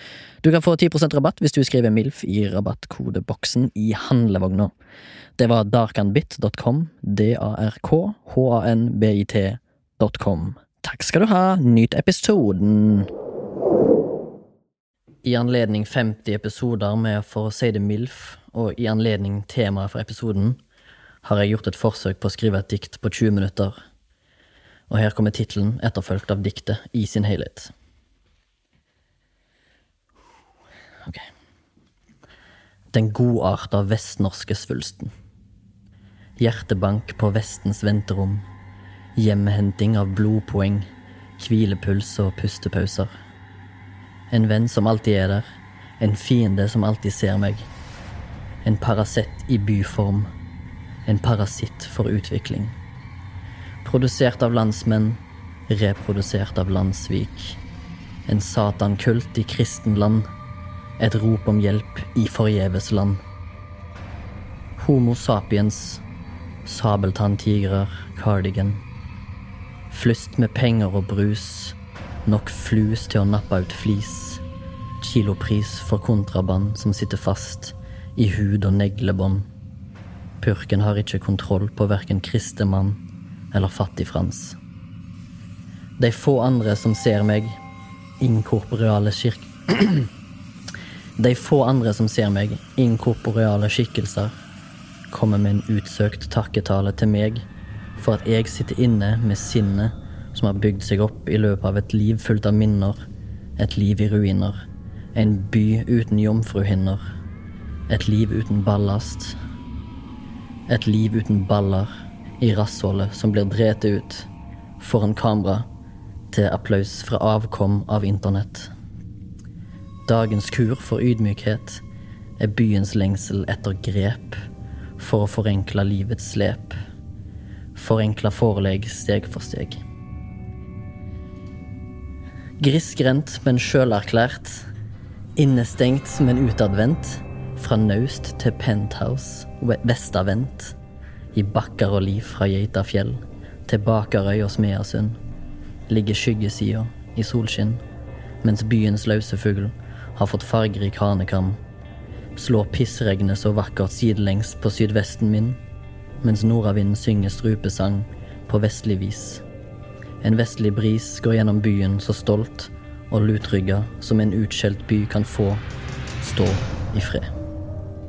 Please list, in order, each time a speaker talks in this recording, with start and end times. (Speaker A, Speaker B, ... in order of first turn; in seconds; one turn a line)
Speaker A: 0.4-4.7
Speaker A: 5.4-13.1
Speaker A: 15.2-20.6
Speaker A: 21.2-23.7
Speaker A: 24.9-27.7
Speaker A: 32.9-35.1
Speaker A: 36.4-38.4
Speaker A: 39.1-40.9
Speaker A: 41.4-43.1
Speaker A: 44.3-45.4
Speaker A: 46.0-47.7
Speaker A: 48.6-50.3
Speaker A: 51.0-52.7
Speaker A: 53.8-57.6
Speaker A: 58.3-60.3
Speaker A: 61.0-63.2
Speaker A: 64.8-66.0
Speaker A: 66.6-68.8
Speaker A: 69.9-74.4
Speaker A: 75.0-79.5
Speaker A: 80.4-83.0
Speaker A: 83.5-84.6
Speaker A: 86.0-87.6
Speaker A: 88.2-90.1
Speaker A: 91.2-94.3
Speaker A: 95.1-97.4
Speaker A: 98.0-103.0
Speaker A: 103.6-104.5
Speaker A: 105.1-107.0
Speaker A: 107.9-109.3
Speaker A: 110.7-115.6
Speaker A: 116.3-118.7
Speaker A: 120.1-121.8
Speaker A: 122.4-124.4
Speaker A: 125.0-126.8
Speaker A: 127.7-129.8
Speaker A: 132.6-134.7
Speaker A: 135.4-140.7
Speaker A: 141.3-145.2
Speaker A: 145.9-147.8
Speaker A: 148.4-151.6
Speaker A: 152.3-155.6
Speaker A: 156.2-159.4
Speaker A: 160.2-165.6
Speaker A: 166.2-167.2